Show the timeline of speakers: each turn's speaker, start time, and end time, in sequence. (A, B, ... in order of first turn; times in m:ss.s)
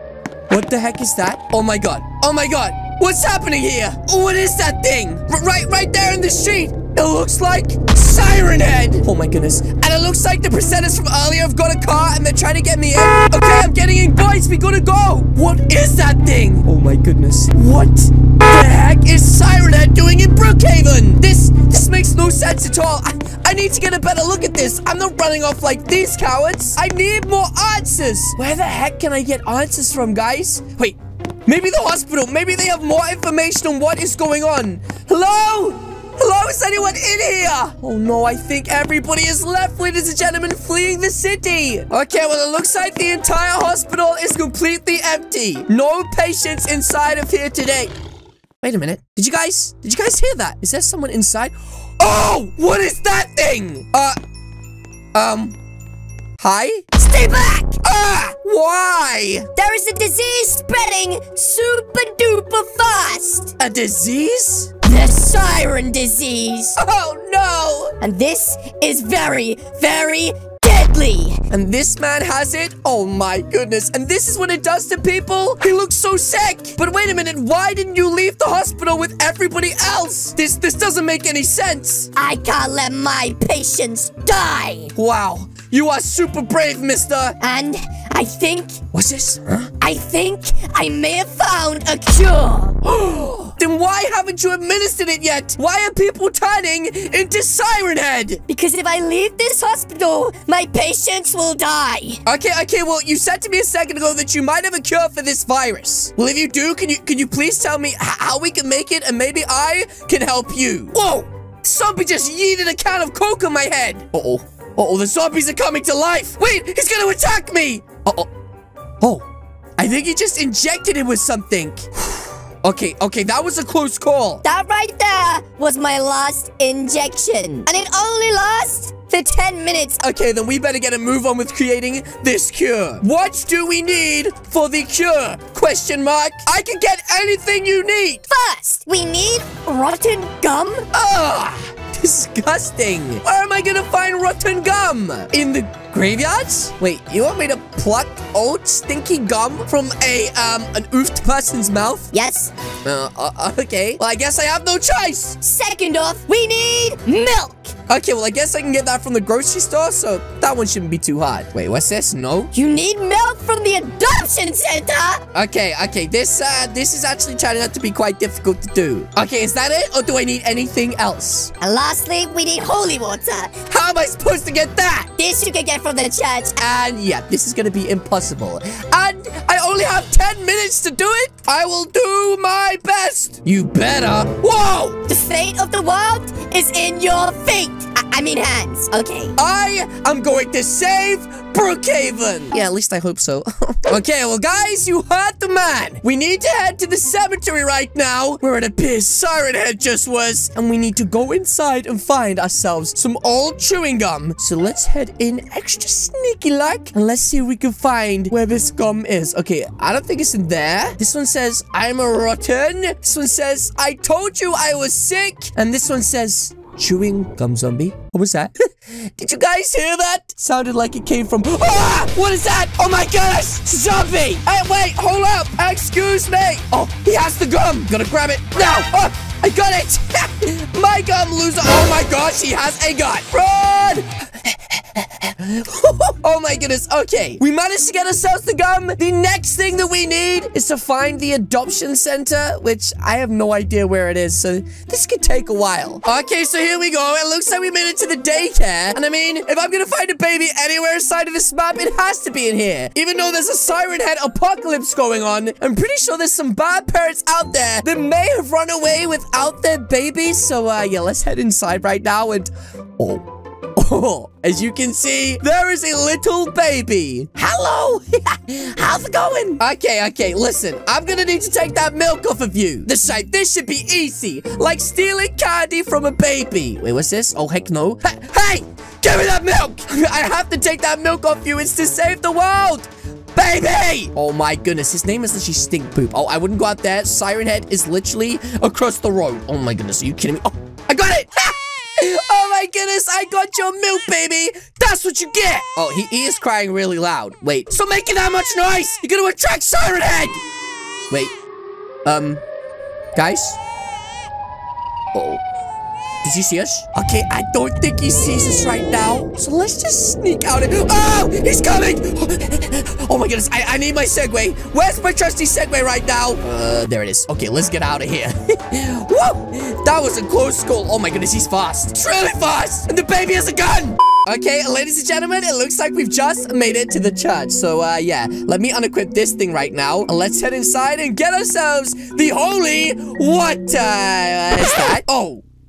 0:00.5-0:47.9 A
0:48.6-0:54.2 A
0:55.1-0:55.6 A
0:56.4-0:57.0 A
0:57.0-0:57.8 B
0:57.8-0:59.5 A
0:59.6-1:03.5 B
1:03.6-1:04.8 A
1:04.8-1:06.8 B
1:06.8-1:08.0 A
1:08.0-1:11.4 B
1:11.5-1:22.1 A
1:22.1-1:24.9 B
1:24.9-1:27.4 A
1:27.4-1:28.8 B
1:28.9-1:29.7 A
1:29.8-1:32.8 B
1:32.8-1:38.4 A
1:38.5-1:42.2 B
1:42.2-1:58.3 A
1:59.0-1:59.2 A
1:59.8-2:01.9 A
2:02.6-2:04.4 A
2:04.4-2:10.0 B
2:10.0-2:18.2 A
2:18.3-2:20.8 B
2:20.9-2:32.1 A
2:32.1-2:32.5 B
2:32.8-2:35.4 A
2:35.4-2:37.7 B
2:37.9-2:42.5 A
2:42.5-2:45.2 B
2:45.3-2:51.5 A
2:51.6-2:53.6 B
2:53.7-2:55.1 A
2:55.2-2:56.6 B
2:56.6-3:05.0 A
3:05.1-3:09.4 B
3:09.4-5:00.4 A
5:02.0-5:02.4 A
5:03.1-5:03.6 A
5:05.1-5:05.4 A
5:06.2-5:35.4 A